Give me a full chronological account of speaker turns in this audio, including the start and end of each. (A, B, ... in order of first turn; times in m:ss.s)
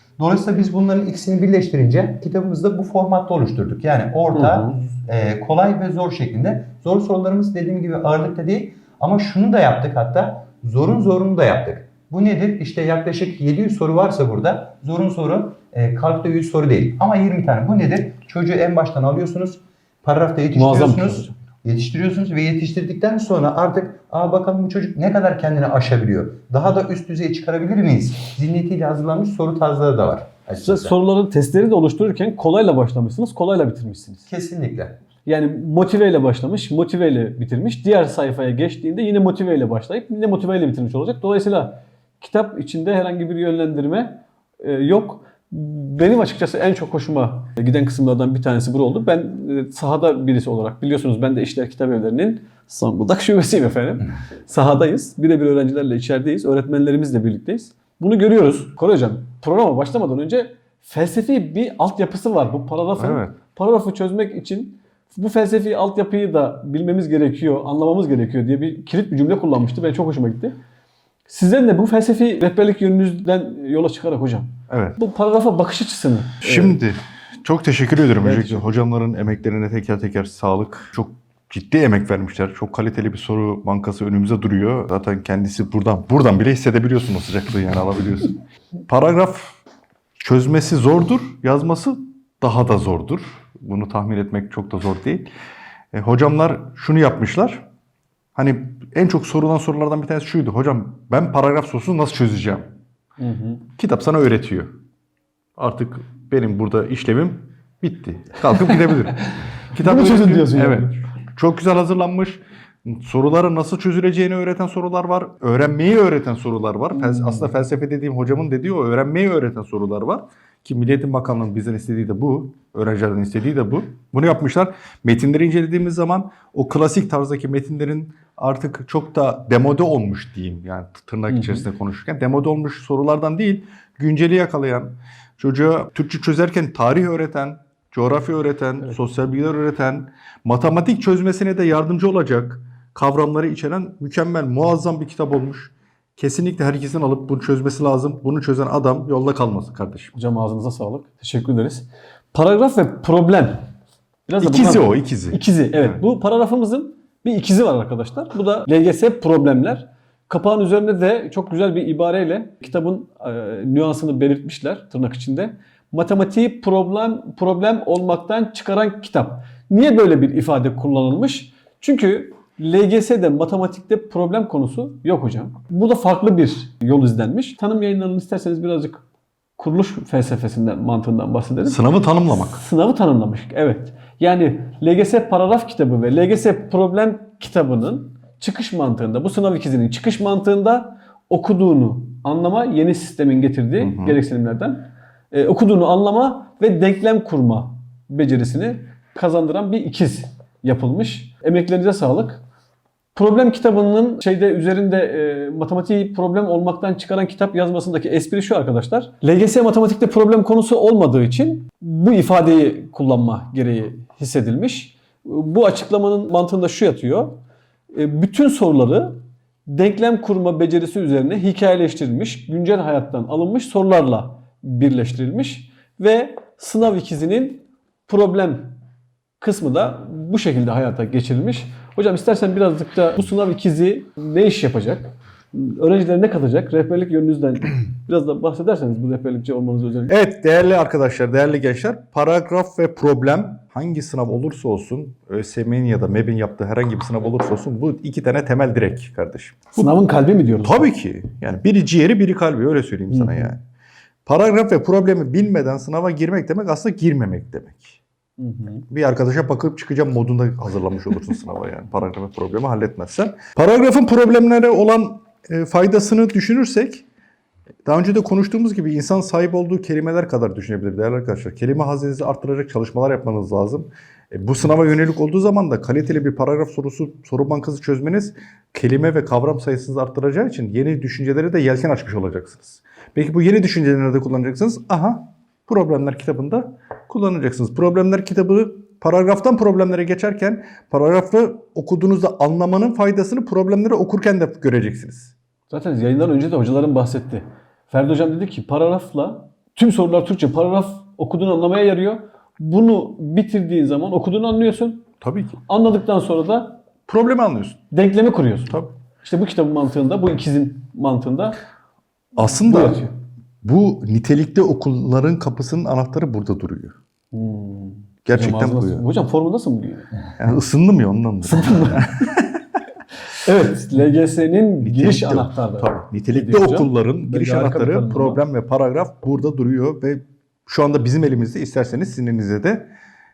0:00.2-0:31.0 A
0:04.3-0:04.7 B
0:20.5-0:21.3 B
0:30.6-0:34.2 B
0:34.3-0:34.9 A
0:35.2-1:10.6 B
1:03.0-1:03.4 C
1:11.3-1:16.8 B
1:14.7-1:15.0 C
1:16.4-1:28.4 C
1:18.2-1:18.6 B
1:28.9-1:29.6 C
1:30.2-1:35.3 C
1:35.9-1:37.6 C
1:38.3-1:42.6 C
1:43.2-1:43.6 B
1:43.8-1:44.7 C
1:45.6-2:30.1 C
1:49.8-1:50.9 B
1:56.9-1:57.5 B
2:11.3-2:11.6 B
2:30.1-2:33.6 B
2:34.3-2:59.0 B
2:34.4-2:36.0 C
2:59.6-3:22.4 B
3:01.7-3:02.6 C
3:13.8-3:14.2 C
3:23.1-3:37.4 B
3:37.9-3:48.7 B
3:49.4-4:00.1 B
4:00.1-4:09.9 C
4:09.7-4:10.8 B
4:10.6-4:13.6 C
4:13.1-4:13.5 B
4:14.2-4:18.0 C
4:18.4-4:18.8 B
4:18.9-4:27.0 C
4:27.8-4:55.3 C
4:55.7-5:05.0 B
5:05.2-5:05.6 C
5:05.6-5:06.8 B
5:07.1-5:07.8 C
5:07.9-5:11.6 B
5:12.3-5:13.1 C
5:12.5-5:13.1 B
5:13.6-5:16.9 C
5:17.3-5:20.1 B
5:18.2-5:19.0 C
5:20.4-5:22.5 C
5:21.4-5:22.0 B
5:23.4-5:28.4 B
5:24.8-5:32.9 C